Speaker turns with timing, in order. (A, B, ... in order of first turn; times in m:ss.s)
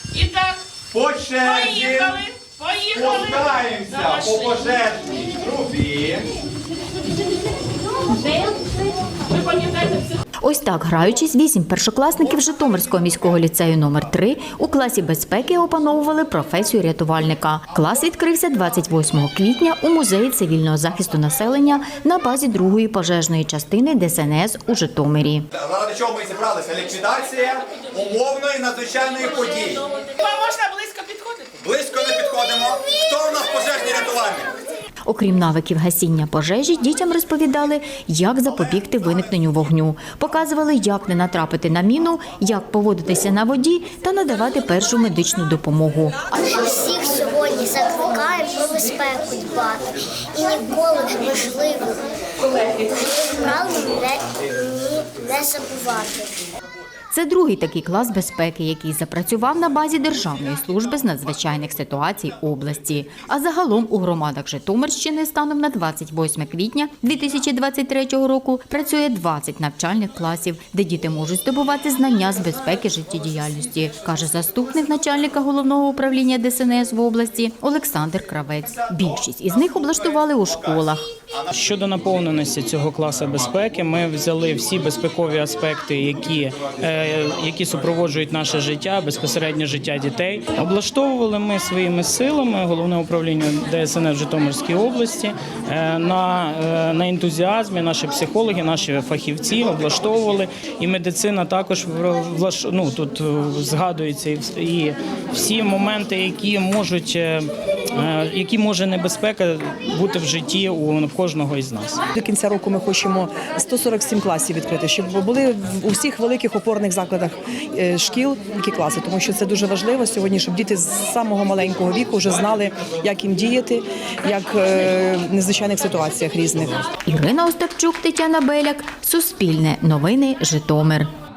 0:00.1-0:00.6 A
0:00.9-0:02.2 B
0:01.4-0:04.6 A
0:02.9-0:06.3 B
0:09.3-0:10.1 A
0:10.4-0:25.5 C
0:25.5-0:29.8 B
0:30.0-0:31.6 A
0:31.6-0:34.5 B
0:35.0-0:46.4 C
0:46.4-0:56.5 D
0:57.1-1:21.1 C
1:21.5-1:52.0 E
1:52.2-2:06.8 F
2:07.0-2:11.1 C